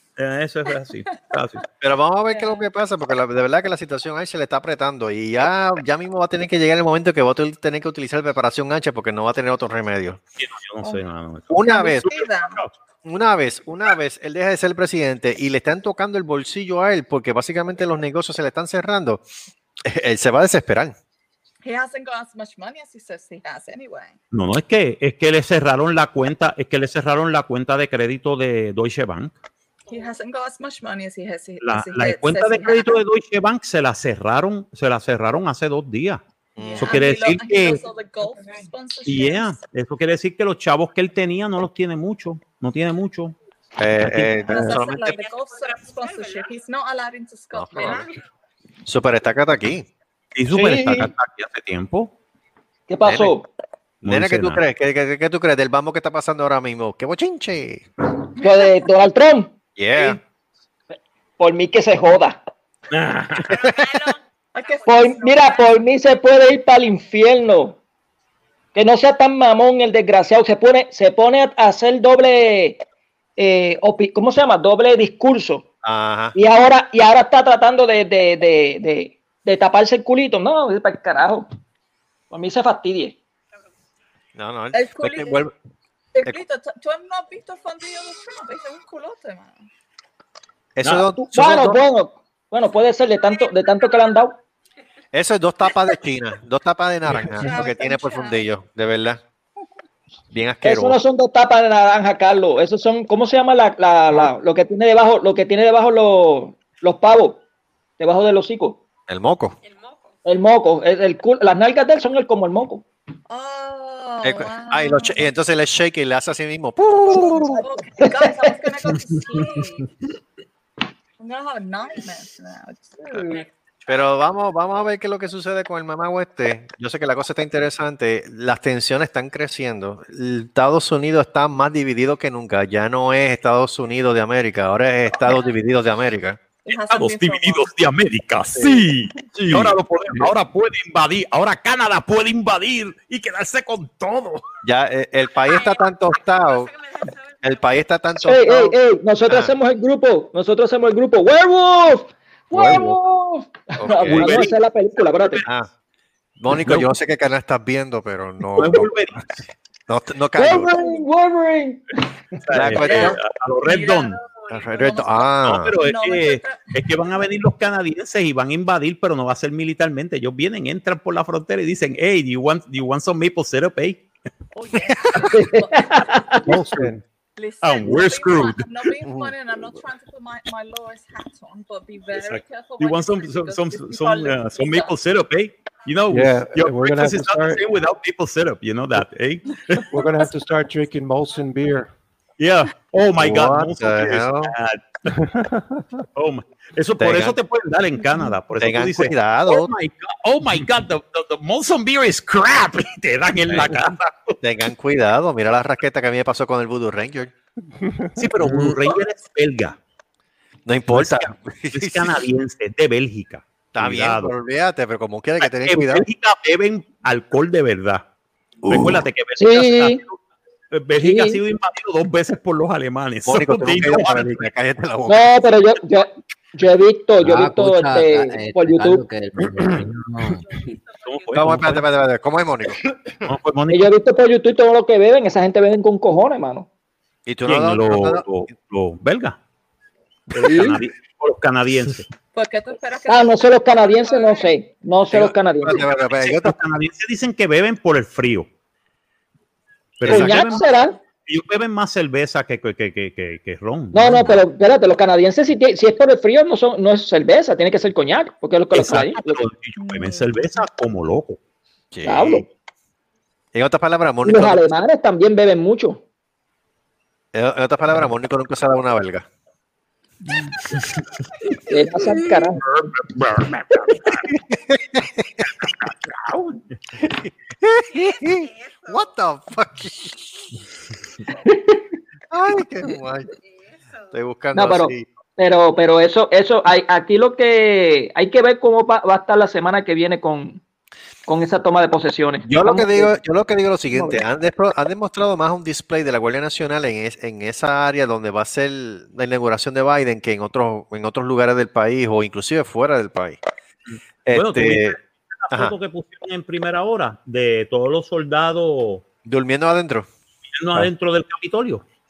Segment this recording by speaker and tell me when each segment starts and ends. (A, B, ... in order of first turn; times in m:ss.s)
0:00.2-0:01.6 A
0:01.8-0:10.2 B
0:02.3-0:02.7 C
0:10.4-0:12.7 A
0:10.8-0:12.6 C
0:11.5-0:12.1 B
0:13.0-0:19.2 B
0:19.8-0:21.0 B
0:21.6-0:24.2 C
0:24.3-0:29.3 A
0:29.9-0:33.0 C
0:31.6-0:36.2 A
0:36.6-0:37.0 B
0:36.6-0:39.6 C
0:36.8-0:37.8 A
0:39.1-0:43.4 A
0:43.8-0:45.1 B
0:44.0-0:44.4 A
0:44.4-0:48.1 C
0:45.0-0:46.5 D
0:47.5-0:48.1 B
0:47.8-0:48.1 D
0:48.9-0:49.9 B
0:50.4-0:52.1 A
0:50.5-0:51.1 E
0:52.9-0:53.5 E
0:53.0-0:53.4 B
0:54.0-0:54.6 A
0:54.0-0:57.9 B
0:58.4-0:58.7 C
0:58.4-0:59.5 E
0:59.8-1:00.2 B
1:01.4-1:02.4 E
1:02.9-1:03.5 A
1:03.5-1:05.8 D
1:03.5-1:03.8 B
1:04.5-1:05.5 C
1:04.9-1:07.8 E
1:08.7-1:12.8 E
1:13.4-1:15.7 E
1:15.8-1:16.4 B
1:16.4-1:21.5 E
1:22.3-1:23.2 E
1:24.4-1:25.5 B
1:24.7-1:25.5 C
1:26.1-1:29.6 C
1:30.8-1:31.8 B
1:30.8-1:31.1 A
1:31.2-1:34.4 E
1:35.1-1:39.2 B
1:37.4-1:38.5 C
1:40.3-1:41.0 B
1:40.6-1:47.4 E
1:48.0-1:48.8 E
1:49.1-1:49.6 B
1:49.6-1:50.2 D
1:50.2-1:52.8 E
1:53.3-1:55.2 C
1:54.2-1:57.6 B
1:57.1-1:59.9 C
1:57.1-1:58.7 E
2:01.2-2:03.4 C
2:03.9-2:16.4 B
2:15.1-2:15.5 C
2:16.6-2:17.7 C
2:16.7-2:24.4 A
2:18.5-2:18.9 B
2:19.5-2:20.3 B
2:24.6-2:26.7 B
2:25.4-2:27.9 D
2:27.4-2:29.5 B
2:28.2-2:35.5 E
2:32.5-2:33.0 B
2:33.8-2:34.5 B
2:34.1-2:35.5 A
2:35.4-2:35.7 B
2:36.4-2:38.9 B
2:36.5-2:36.9 A
2:38.6-2:39.5 A
2:39.9-2:40.8 B
2:40.4-2:42.0 E
2:42.4-2:44.2 A
2:42.5-2:43.2 B
2:42.8-2:44.1 C
2:44.2-2:44.6 D
2:44.5-2:45.8 B
2:44.7-2:46.7 C
2:45.4-2:54.0 A
2:54.5-2:56.4 C
2:54.8-2:55.4 B
2:55.3-2:56.6 E
2:56.4-2:57.0 F
2:56.5-2:56.8 B
2:57.4-3:04.9 C
2:57.6-2:58.7 A
2:59.0-2:59.3 B
3:02.2-3:09.9 A
3:06.1-3:07.6 F
3:09.9-3:11.9 F
3:12.4-3:14.8 A
3:13.2-3:14.5 B
3:15.1-3:15.8 F
3:16.2-3:24.4 A
3:17.0-3:17.4 B
3:18.6-3:19.7 B
3:23.5-3:23.7 B
3:24.4-3:27.3 B
3:28.2-3:29.8 A
3:30.7-3:32.2 B
3:30.9-3:34.3 A
3:33.7-3:36.1 B
3:35.4-3:38.0 A
3:38.6-3:39.0 B
3:38.7-3:40.2 A
3:39.4-3:40.0 E
3:40.7-3:44.5 A
3:41.0-3:41.4 E
3:43.2-3:45.4 B
3:45.1-3:49.0 E
3:47.2-3:50.4 G
3:50.5-3:51.7 D
3:51.0-3:51.8 A
3:51.3-3:53.3 B
3:53.3-3:53.9 A
3:53.7-3:56.7 E
3:57.3-3:58.3 B
3:57.4-3:59.4 A
4:00.3-4:02.1 A
4:00.4-4:00.8 E
4:02.3-4:04.5 C
4:03.1-4:05.8 E
4:05.1-4:06.6 B
4:05.7-4:08.5 A
4:10.0-4:10.6 A
4:10.0-4:11.0 E
4:10.1-4:10.6 B
4:11.3-4:14.4 A
4:13.9-4:19.4 E
4:18.7-4:21.4 A
4:19.8-4:20.6 C
4:21.9-4:22.4 B
4:22.0-4:22.5 E
4:23.5-4:24.7 B
4:24.2-4:26.0 E
4:27.3-4:29.3 B
4:31.7-4:32.6 E
4:32.6-4:34.3 A
4:34.3-4:35.2 B
4:35.6-4:36.6 A
4:37.0-4:40.3 B
4:37.9-4:39.2 D
4:41.5-4:41.8 E
4:42.3-4:43.3 B
4:43.4-4:44.1 D
4:44.1-4:45.1 B
4:44.5-4:50.6 E
4:51.3-4:53.1 E
4:52.4-5:03.4 B
4:53.9-4:54.2 E
5:03.9-5:09.0 A
5:04.2-5:05.0 B
5:09.2-5:10.1 B
5:10.6-5:11.8 A